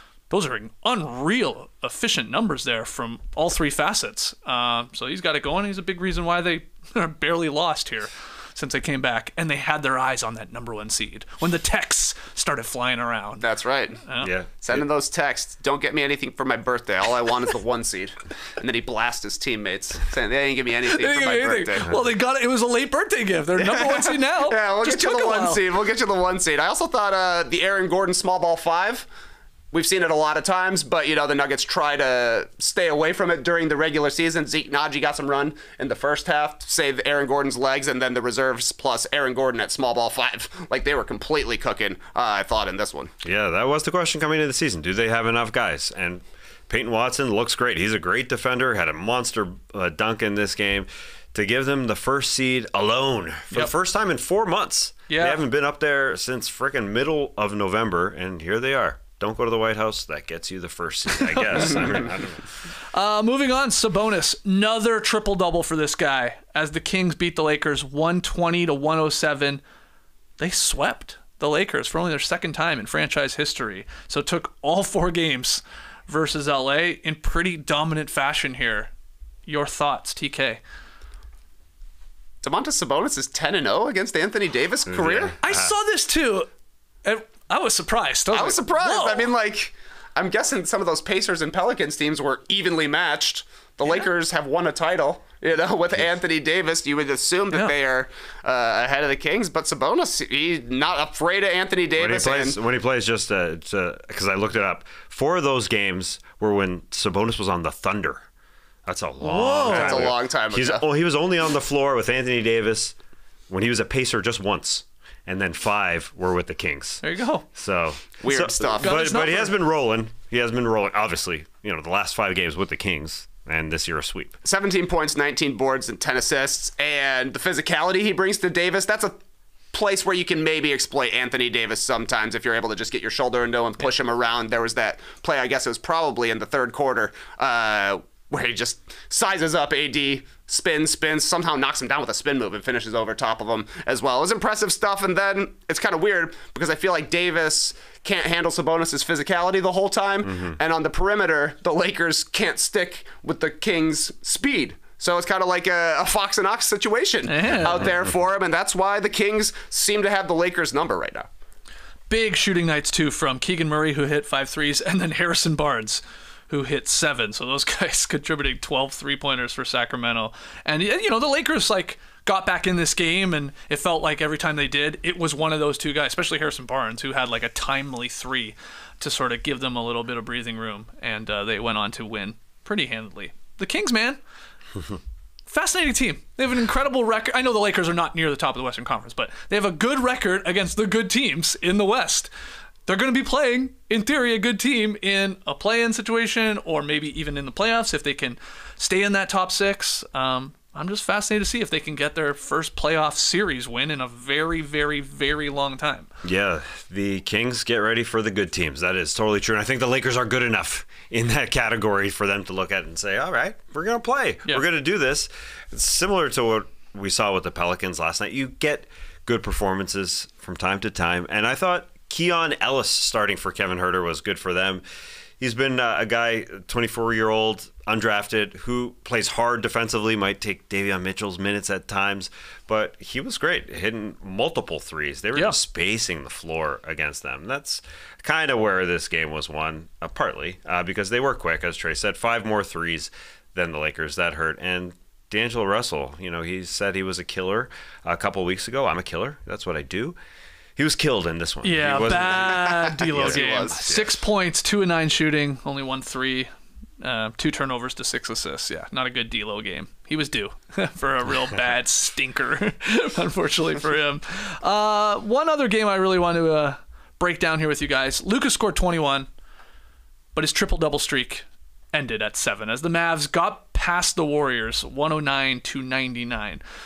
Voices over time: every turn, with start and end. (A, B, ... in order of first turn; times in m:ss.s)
0:00.3-0:13.4 A
0:13.4-0:14.0 B
0:14.0-0:14.3 A
0:14.2-0:14.8 C
0:14.6-0:21.9 B
0:20.9-0:25.6 A
0:23.6-0:29.1 B
0:29.7-0:43.1 B
0:43.2-1:02.4 C
0:55.1-0:55.4 A
1:01.5-1:01.8 A
1:02.9-1:09.6 A
1:10.4-1:18.9 A
1:19.4-1:20.6 A
1:22.4-1:25.3 B
1:24.9-1:25.7 C
1:25.4-1:26.5 A
1:27.0-1:29.3 A
1:28.3-1:42.6 B
1:42.0-1:48.2 C
1:48.8-1:52.9 C
1:49.2-1:50.1 A
1:49.7-1:50.8 B
1:53.5-1:57.0 C
1:57.0-1:57.4 A
1:57.5-2:04.4 C
1:58.2-1:59.0 B
1:58.8-1:59.5 A
2:04.4-2:09.1 B
2:09.7-2:41.3 B
2:37.2-2:37.9 A
2:42.1-3:04.2 A
3:05.5-3:12.3 A
3:12.8-3:26.1 A
3:26.2-3:44.8 C
3:45.4-4:10.2 C
4:10.8-4:14.2 C
4:11.6-4:29.3 A
4:12.5-4:13.8 B
4:30.3-4:36.6 A